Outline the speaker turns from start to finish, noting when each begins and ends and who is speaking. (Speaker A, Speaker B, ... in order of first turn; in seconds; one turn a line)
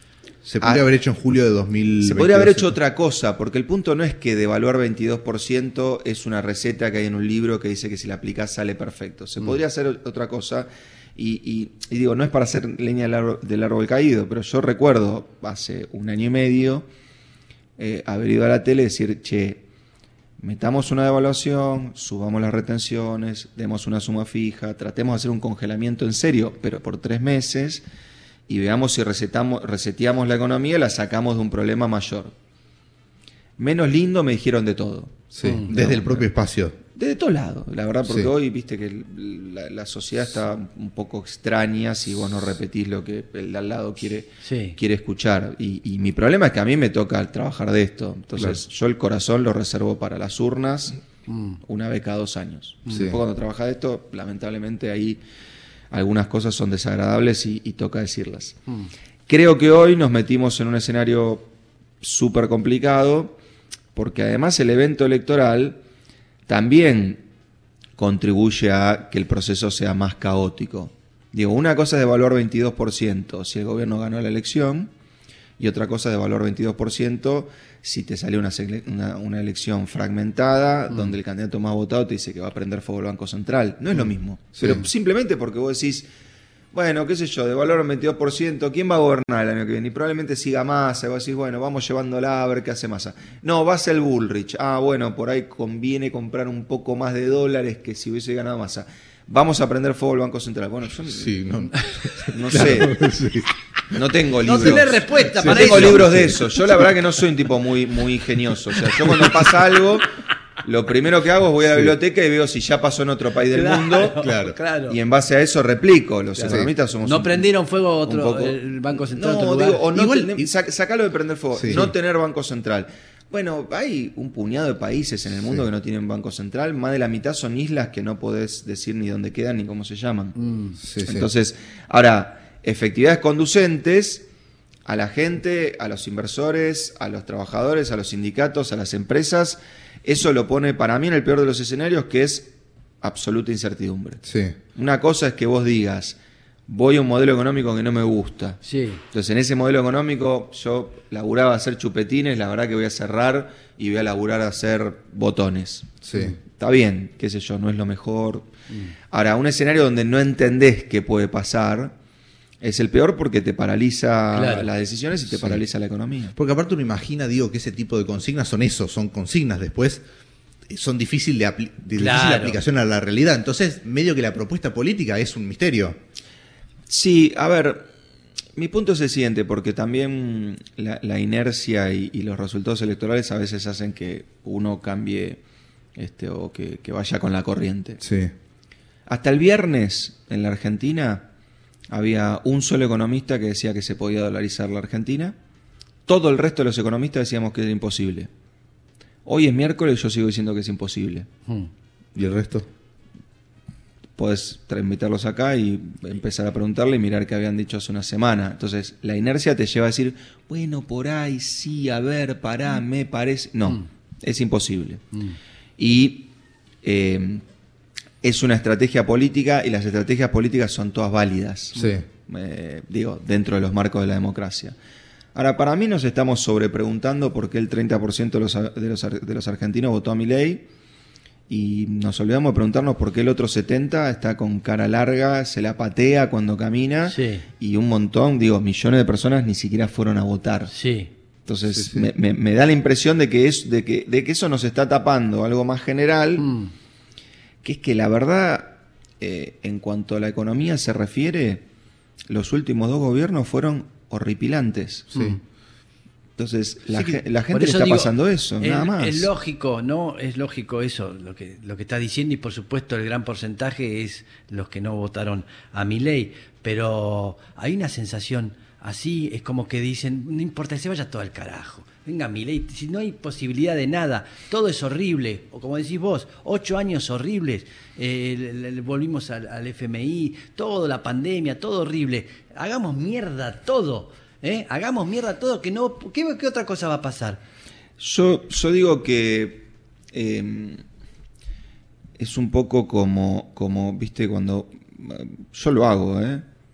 Speaker A: 0.4-2.8
Speaker B: 0.6-0.8
Speaker B: 2.0-16.9
Speaker B: 17.8-19.6
Speaker B: 20.4-27.8
Speaker B: 28.5-32.3
Speaker B: 33.6-36.3
Speaker A: 35.3-36.8
Speaker C: 35.4-35.7
Speaker B: 36.9-51.0
Speaker C: 44.4-44.8
Speaker C: 51.3-51.6
Speaker B: 51.6-55.2
Speaker A: 52.9-53.2
Speaker B: 55.9-58.6
Speaker B: 59.3-61.5
Speaker B: 62.0-63.4
Speaker B: 63.9-65.8
Speaker B: 66.5-67.2
Speaker B: 68.0-74.9
Speaker B: 75.6-86.1
Speaker A: 84.6-84.9
Speaker B: 86.7-101.4
Speaker A: 101.0-103.5
Speaker B: 102.2-103.1
Speaker B: 103.9-114.3
Speaker C: 104.4-106.4
Speaker A: 104.5-107.0
Speaker A: 108.8-109.5
Speaker C: 113.5-115.0
Speaker A: 114.2-114.6
Speaker B: 114.9-117.5
Speaker C: 116.3-119.9
Speaker A: 116.4-116.7
Speaker B: 118.0-130.3
Speaker A: 119.9-120.5
Speaker A: 121.5-121.9
Speaker C: 130.3-130.8
Speaker A: 130.8-131.3
Speaker B: 131.0-134.3
Speaker B: 134.8-142.5
Speaker B: 143.0-144.2
Speaker A: 144.2-144.6
Speaker B: 144.7-148.6
Speaker C: 148.6-149.0
Speaker B: 149.1-158.5
Speaker A: 156.0-156.4
Speaker B: 159.1-161.9
Speaker B: 162.6-166.3
Speaker C: 164.3-164.7
Speaker A: 166.3-170.0
Speaker A: 170.7-176.0
Speaker C: 171.9-172.6
Speaker B: 176.9-177.9
Speaker B: 178.6-185.4
Speaker B: 185.9-188.0
Speaker A: 188.0-188.3
Speaker B: 189.1-191.2
Speaker B: 191.9-195.3
Speaker B: 196.1-198.3
Speaker B: 199.2-201.3
Speaker A: 202.1-202.7
Speaker B: 204.2-215.0
Speaker B: 215.8-216.3
Speaker B: 216.8-217.4
Speaker B: 218.2-224.8
Speaker A: 221.7-222.0
Speaker B: 225.3-230.7
Speaker B: 231.5-240.7
Speaker C: 237.1-237.4
Speaker C: 240.7-241.1
Speaker B: 241.4-246.5
Speaker A: 241.7-242.1
Speaker C: 246.4-246.7
Speaker B: 247.6-251.6
Speaker B: 252.3-255.1
Speaker A: 255.1-255.4
Speaker C: 255.1-255.4
Speaker B: 256.4-259.3
Speaker C: 256.9-287.4
Speaker B: 288.0-290.8
Speaker B: 292.2-296.4